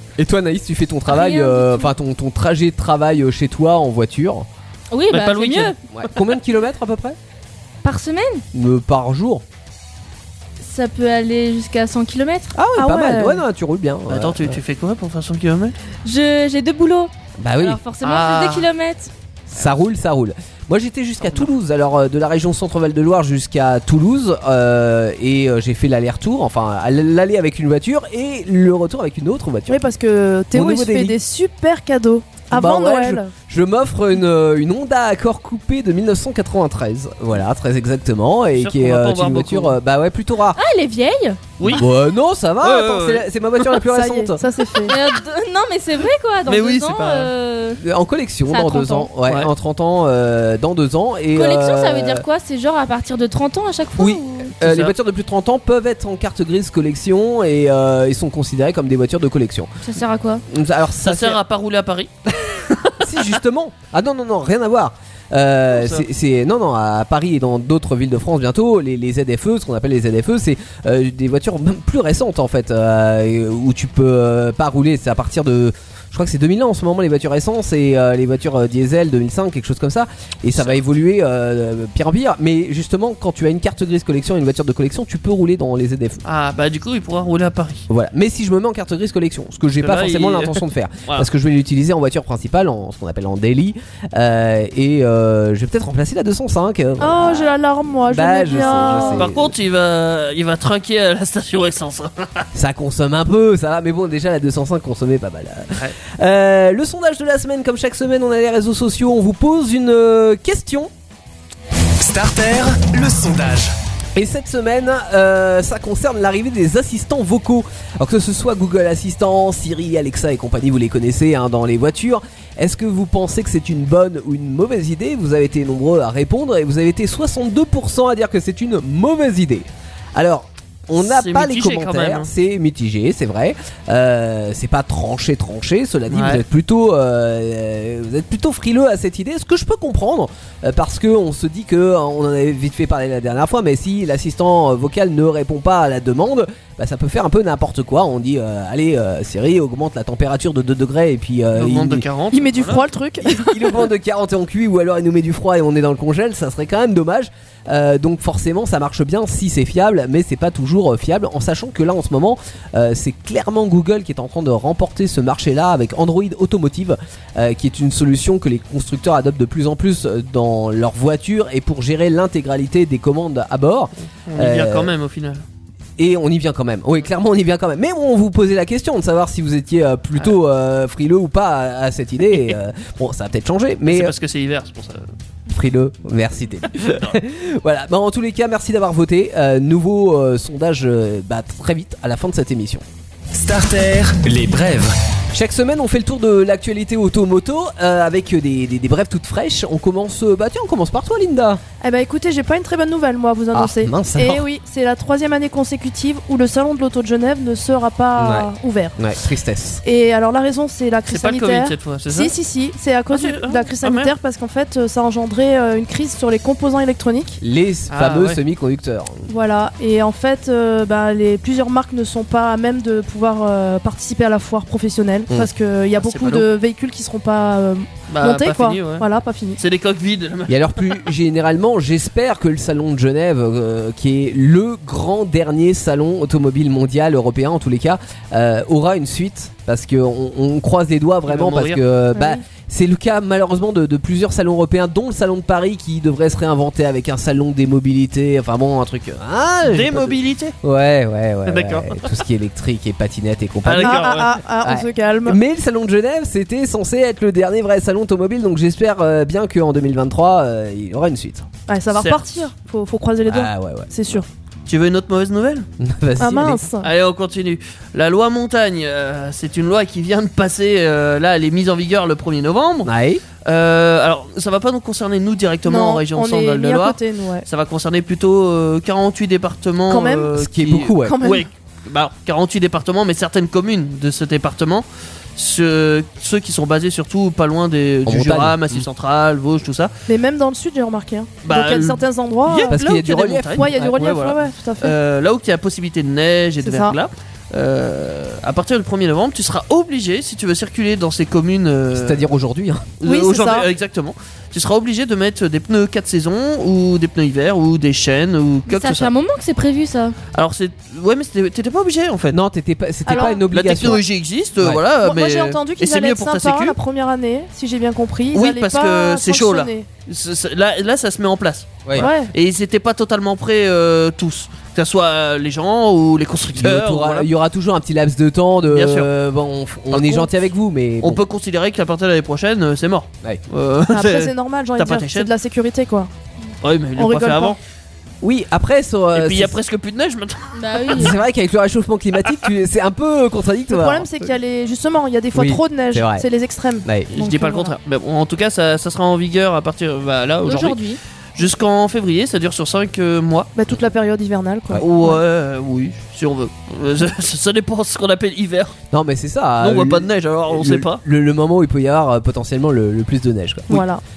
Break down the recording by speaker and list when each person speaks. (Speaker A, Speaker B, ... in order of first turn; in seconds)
Speaker A: 0.2-4.5, 5.9-7.2, 8.5-9.4, 12.5-14.6, 17.4-17.8, 19.5-29.9, 30.5-31.2, 32.5-40.6, 41.6-44.9, 47.8-52.2, 54.0-59.7, 60.5-61.4, 63.0-86.2, 87.9-97.5, 98.1-99.5, 102.5-110.9, 114.1-152.1, 153.2-174.9, 176.0-184.1, 185.5-192.8, 195.3-201.6, 203.5-204.4, 208.2-209.8, 217.4-219.3, 230.5-261.4, 263.3-263.9, 265.8-266.6, 272.8-273.2, 280.3-281.2, 288.1-288.9, 292.7-293.8, 301.9-302.9, 312.3-314.0, 321.8-322.1, 326.6-331.2, 338.2-339.6, 340.9-344.1, 345.3-346.2, 346.8-347.1, 358.9-363.9
Speaker B: 1.1-1.9, 4.9-5.8, 7.8-8.4, 10.6-12.6, 16.0-19.1, 40.5-41.4, 44.8-47.8, 48.5-49.1, 51.3-54.5, 59.8-60.4, 308.7-310.1, 340.5-341.1, 350.4-351.0
Speaker C: 5.1-6.2, 14.1-15.7, 18.0-18.7, 38.5-39.7, 41.6-41.9, 42.6-43.6, 46.5-47.3, 49.2-49.5, 54.6-54.9, 61.0-63.4, 65.7-66.0, 86.2-87.8, 89.8-91.3, 98.8-102.5, 131.0-132.3, 136.1-136.4, 151.5-152.9, 174.2-175.4, 183.8-185.1, 186.8-187.1, 211.1-212.3, 213.1-214.1, 217.9-218.4, 226.0-226.5, 228.1-229.1, 229.6-231.0, 241.2-241.8, 249.6-250.5, 251.4-252.2, 253.6-254.3, 261.9-262.2, 264.6-265.7, 266.8-272.9, 273.4-284.8, 285.4-289.9, 291.4-302.2, 303.0-309.1, 310.3-312.4, 313.1-316.8, 318.3-327.3, 328.7-329.1, 329.9-330.3, 331.0-335.3, 336.6-337.6, 339.1-341.1, 347.1-350.8, 351.4-353.5, 354.8-358.8, 359.6-361.0
Speaker D: 12.8-13.4, 29.7-33.3, 43.8-44.9, 97.0-99.3, 152.3-153.9, 201.8-208.9, 209.8-217.4, 219.3-229.6, 242.1-242.4, 253.8-255.4, 261.7-264.3, 266.2-266.9, 275.6-277.4, 279.9-280.3, 281.0-281.5, 290.1-292.8, 293.5-294.9, 296.6-297.0, 303.0-303.7, 313.1-314.0, 315.0-319.9, 321.9-322.3, 333.9-336.1, 337.0-337.6, 343.7-347.7, 353.5-355.2, 363.7-364.0
Speaker E: 112.0-113.7, 193.3-194.9